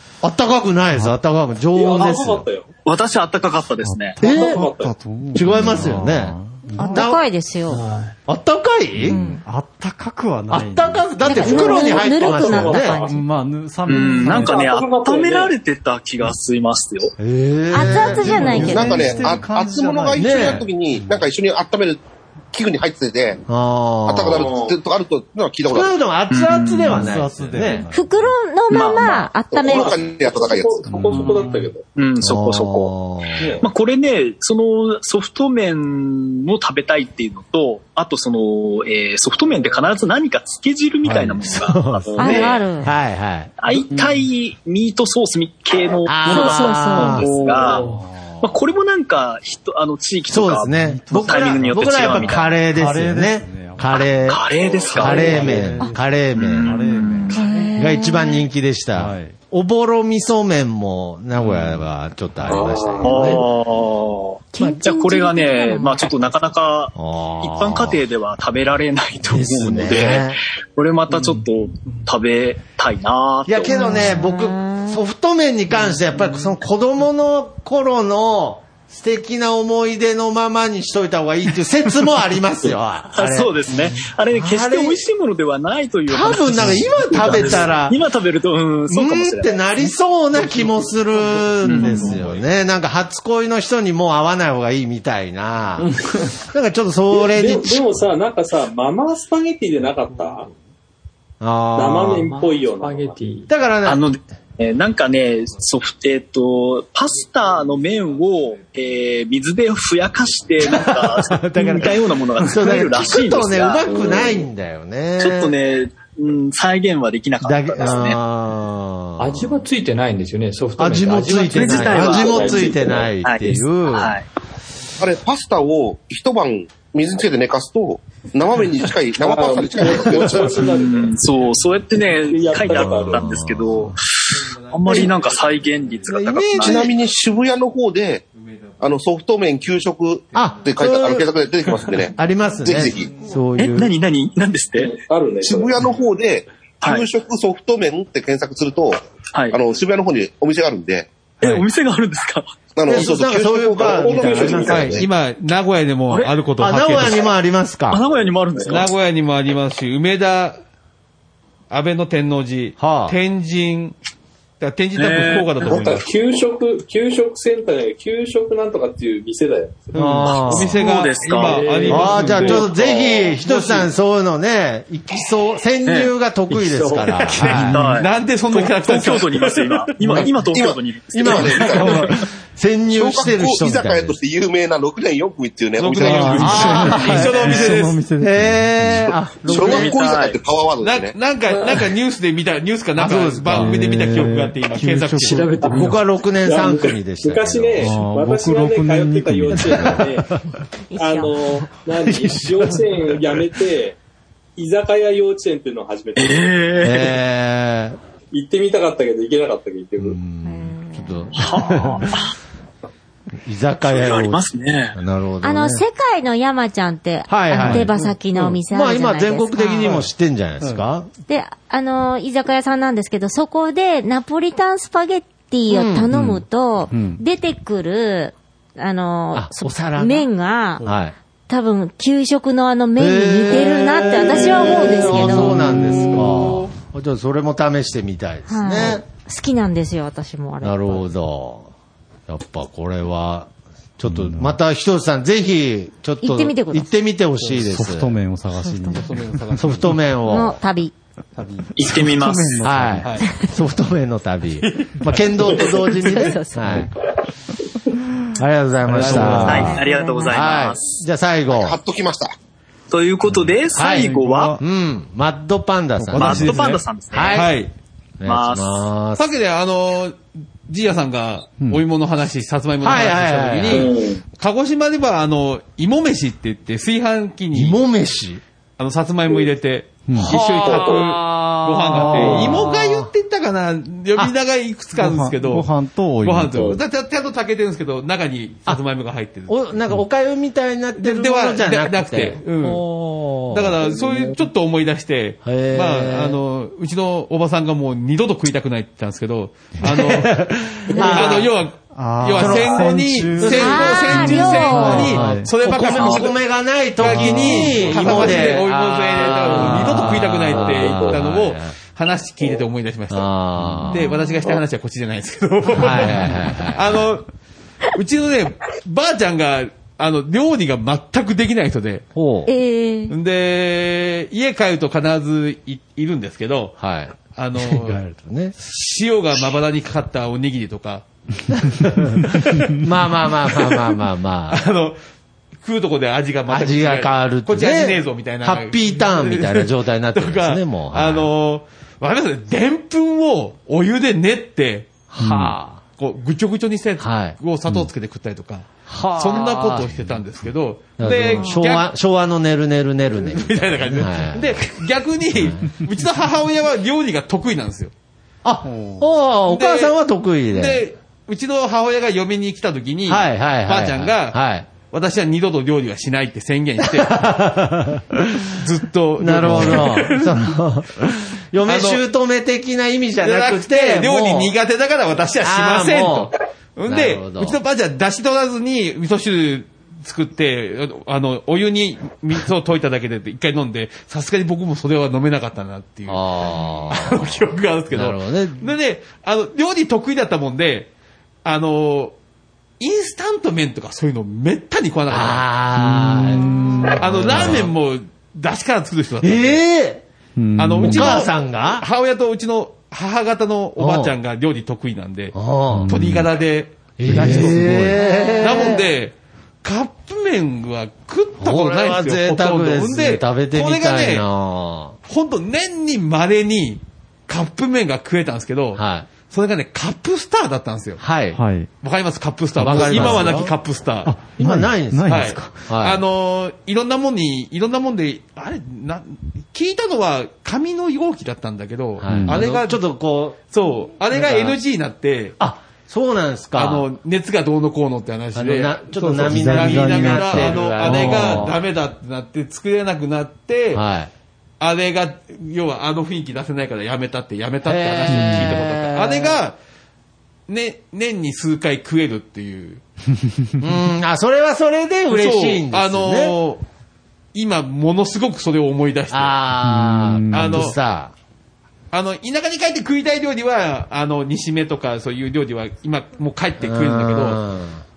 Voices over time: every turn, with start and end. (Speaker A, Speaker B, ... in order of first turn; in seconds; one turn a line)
Speaker A: 0.2-2.4
Speaker B: 1.7-2.7
Speaker C: 2.9-4.2
Speaker D: 3.8-7.1
Speaker A: 4.2-4.7
Speaker B: 4.2-4.9
Speaker A: 5.3-6.3
Speaker E: 6.8-7.8
Speaker A: 6.9-7.2
Speaker F: 7.7-8.1
Speaker A: 8.3-9.2
Speaker D: 8.9-11.4
Speaker E: 9.1-9.4
Speaker A: 10.5-13.0
Speaker E: 11.2-13.1
Speaker B: 11.3-13.2
Speaker D: 13.0-14.8
Speaker C: 13.8-17.1
Speaker B: 14.2-15.5
Speaker A: 17.2-18.9
Speaker E: 17.7-19.1
Speaker D: 17.8-21.3
Speaker G: 18.6-23.4
Speaker A: 20.1-20.6
Speaker A: 23.5-24.5
Speaker G: 24.1-25.9
Speaker B: 24.3-24.8
Speaker A: 25.7-27.9
Speaker C: 26.3-27.0
Speaker D: 26.8-28.3
Speaker E: 27.9-30.0
Speaker C: 28.7-29.3
Speaker G: 29.5-30.9
Speaker B: 29.6-31.8
Speaker D: 30.9-31.7
Speaker C: 31.9-32.9
Speaker A: 32.2-33.5
Speaker B: 33.4-33.6
Speaker C: 33.6-42.6
Speaker D: 41.0-41.5
Speaker A: 41.4-43.5
Speaker E: 42.2-42.9
Speaker C: 43.6-47.8
Speaker D: 43.9-44.2
Speaker A: 46.0-47.4
Speaker E: 46.2-47.3
Speaker D: 47.8-48.3
Speaker C: 48.4-52.5
Speaker A: 50.3-57.2
Speaker D: 50.8-54.1
Speaker C: 54.3-55.5
Speaker D: 54.9-56.1
Speaker C: 56.3-57.5
Speaker D: 56.6-57.6
Speaker E: 57.3-58.5
Speaker A: 57.8-63.5
Speaker D: 58.9-59.4
Speaker D: 61.4-61.8
Speaker B: 62.5-63.4
Speaker C: 63.0-74.1
Speaker E: 64.5-66.1
Speaker A: 67.0-68.0
Speaker A: 69.3-70.4
Speaker A: 73.5-85.0
Speaker E: 73.7-75.0
Speaker C: 82.6-89.7
Speaker A: 86.1-88.0
Speaker A: 88.9-95.9
Speaker C: 91.7-92.1
Speaker A: 96.5-97.8
Speaker B: 97.1-100.5
Speaker A: 101.4-102.4
Speaker B: 101.7-103.2
Speaker F: 102.3-103.5
Speaker A: 103.5-104.0
Speaker C: 103.8-114.1
Speaker A: 110.6-115.5
Speaker C: 115.2-118.2
Speaker A: 117.4-119.6
Speaker F: 119.2-122.9
Speaker A: 120.8-124.1
Speaker C: 121.5-122.5
Speaker B: 122.1-123.1
Speaker C: 123.2-124.2
Speaker G: 125.0-130.6
Speaker B: 129.2-131.1
Speaker C: 130.5-136.9
Speaker B: 132.3-133.3
Speaker A: 132.6-133.9
Speaker H: 134.4-136.1
Speaker A: 136.1-136.9
Speaker G: 136.6-138.2
Speaker H: 138.3-138.9
Speaker G: 138.8-143.1
Speaker H: 140.3-140.6
Speaker A: 140.3-141.3
Speaker A: 142.1-143.9
Speaker H: 143.0-143.4
Speaker C: 143.6-144.9
Speaker B: 144.8-145.8
Speaker G: 145.4-149.0
Speaker C: 146.8-147.1
Speaker C: 149.3-149.6
Speaker G: 149.5-151.1
Speaker C: 151.4-152.5
Speaker G: 152.7-155.0
Speaker A: 152.9-155.1
Speaker B: 153.8-154.9
Speaker H: 154.8-157.2
Speaker C: 156.1-156.3
Speaker A: 156.6-158.0
Speaker C: 157.9-158.9
Speaker H: 158.7-160.6
Speaker H: 161.7-163.9
Speaker A: 162.8-163.2
Speaker H: 164.6-166.1
Speaker C: 164.9-165.9
Speaker B: 165.6-170.2
Speaker A: 169.9-170.8
Speaker C: 170.2-171.7
Speaker H: 170.5-172.7
Speaker B: 171.5-173.4
Speaker F: 171.6-172.6
Speaker A: 171.9-177.9
Speaker C: 175.8-176.1
Speaker F: 176.6-177.1
Speaker H: 177.3-180.2
Speaker C: 177.4-182.2
Speaker D: 177.4-177.8
Speaker G: 180.5-182.0
Speaker A: 181.1-184.2
Speaker G: 182.9-186.6
Speaker H: 185.8-188.1
Speaker D: 185.9-189.1
Speaker A: 186.3-190.0
Speaker G: 189.5-191.1
Speaker C: 189.5-190.4
Speaker H: 190.8-195.5
Speaker A: 192.9-193.8
Speaker D: 193.5-195.6
Speaker F: 195.2-196.0
Speaker A: 195.7-198.0
Speaker B: 196.4-200.3
Speaker D: 197.8-200.2
Speaker A: 199.5-200.1
Speaker E: 200.9-201.3
Speaker B: 200.9-204.0
Speaker A: 202.0-203.2
Speaker B: 204.6-206.6
Speaker C: 206.2-207.2
Speaker A: 206.8-208.0
Speaker B: 208.3-210.2
Speaker A: 210.0-212.1
Speaker E: 210.4-211.3
Speaker C: 211.4-212.2
Speaker A: 213.4-215.8
Speaker C: 213.8-215.0
Speaker E: 215.4-220.0
Speaker A: 217.3-221.1
Speaker D: 217.5-217.9
Speaker D: 220.6-220.8
Speaker E: 221.3-230.8
Speaker A: 225.7-226.1
Speaker D: 226.1-227.2
Speaker A: 229.3-230.3
Speaker A: 230.8-231.1
Speaker E: 231.5-235.5
Speaker A: 233.0-239.0
Speaker D: 235.0-236.7
Speaker E: 238.5-241.1
Speaker A: 240.6-241.7
Speaker A: 242.3-248.1
Speaker D: 244.0-244.6
Speaker E: 246.2-246.9
Speaker D: 247.4-249.9
Speaker E: 248.6-249.0
Speaker H: 248.9-249.9
Speaker A: 249.6-250.6
Speaker E: 250.3-250.9
Speaker H: 251.3-253.3
Speaker C: 251.8-252.6
Speaker D: 251.8-253.2
Speaker A: 252.6-256.9
Speaker H: 254.6-255.0
Speaker E: 256.0-256.8
Speaker A: 258.4-261.8
Speaker D: 258.9-259.7
Speaker H: 258.9-259.6
Speaker C: 259.4-261.0
Speaker E: 259.5-260.5
Speaker G: 261.5-262.3
Speaker C: 262.9-264.6
Speaker A: 263.7-267.5
Speaker D: 263.9-264.6
Speaker D: 266.0-266.8
Speaker C: 266.2-267.4
Speaker H: 267.3-267.7
Speaker A: 268.2-269.3
Speaker C: 268.2-268.9
Speaker H: 269.2-277.8
Speaker A: 272.8-273.9
Speaker B: 273.7-274.2
Speaker A: 277.5-278.4
Speaker H: 278.8-289.7
Speaker D: 280.1-280.4
Speaker A: 280.2-283.1
Speaker B: 280.3-281.1
Speaker D: 281.9-282.6
Speaker D: 284.9-286.8
Speaker A: 289.5-294.0
Speaker H: 291.0-292.8
Speaker H: 293.5-300.4
Speaker A: 295.4-296.4
Speaker A: 299.8-301.6
Speaker H: 300.9-306.4
Speaker D: 301.9-305.8
Speaker A: 302.3-311.7
Speaker E: 303.6-305.1
Speaker H: 307.0-317.3
Speaker D: 307.0-308.1
Speaker B: 308.1-308.4
Speaker B: 309.3-309.8
Speaker D: 309.6-310.4
Speaker B: 310.5-311.2
Speaker A: 313.1-314.1
Speaker D: 313.6-313.9
Speaker E: 314.0-314.4
Speaker A: 315.7-317.0
Speaker H: 317.9-322.1
Speaker A: 322.1-322.5
Speaker E: 322.4-323.1
Speaker H: 323.1-326.8
Speaker A: 326.8-328.6
Speaker H: 327.3-328.0
Speaker H: 328.6-331.1
Speaker A: 331.6-334.6
Speaker H: 334.5-335.0
Speaker H: 335.6-345.0
Speaker A: 336.5-341.3
Speaker A: 345.1-345.8
Speaker D: 345.2-345.6
Speaker H: 346.0-351.9
Speaker A: 347.0-347.4
Speaker A: 348.9-350.1
Speaker A: 351.0-354.7
Speaker H: 353.1-357.9
Speaker A: 355.3-355.7
Speaker A: 358.4-360.8
Speaker D: 358.6-359.1
Speaker H: 359.5-359.9
Speaker H: 360.5-367.1
Speaker A: 363.1-364.7
Speaker A: 366.9-368.5
Speaker H: 368.6-370.4
Speaker A: 369.2-374.5
Speaker D: 369.4-369.8
Speaker H: 371.6-372.0
Speaker H: 373.2-390.9
Speaker A: 375.4-376.3
Speaker A: 376.9-377.6
Speaker A: 386.1-387.4
Speaker A: 387.9-388.7
Speaker H: 391.4-392.1
Speaker H: 392.8-395.5
Speaker A: 395.1-397.7
Speaker D: 395.8-397.6
Speaker H: 397.0-399.6
Speaker A: 399.2-400.0
Speaker D: 400.4-401.2
Speaker H: 400.6-405.3
Speaker A: 400.8-401.8
Speaker A: 403.8-404.1
Speaker A: 405.3-405.9
Speaker D: 405.7-406.3
Speaker H: 405.9-414.2
Speaker A: 407.0-408.9
Speaker D: 407.0-407.9
Speaker E: 408.0-408.4
Speaker A: 411.4-415.0
Speaker H: 415.1-421.0
Speaker A: 418.8-419.1
Speaker A: 421.0-421.4
Speaker D: 421.3-421.7
Speaker H: 421.8-424.2
Speaker A: 422.6-423.5
Speaker D: 422.7-423.3
Speaker D: 424.0-425.7
Speaker A: 424.4-426.0
Speaker H: 425.1-432.8
Speaker A: 432.0-433.4
Speaker D: 432.1-432.4
Speaker H: 433.5-435.4
Speaker A: 434.1-434.6
Speaker A: 435.4-436.9
Speaker H: 436.5-443.8
Speaker A: 438.3-441.6
Speaker D: 439.1-441.5
Speaker A: 443.7-444.1
Speaker H: 444.6-449.6
Speaker A: 447.6-449.4
Speaker D: 448.1-448.6
Speaker H: 450.5-452.8
Speaker A: 453.6-456.3
Speaker H: 455.1-456.6
Speaker H: 457.3-459.4
Speaker A: 459.1-461.1
Speaker D: 459.6-460.7
Speaker H: 460.3-460.8
Speaker H: 461.9-467.4
Speaker A: 466.6-467.8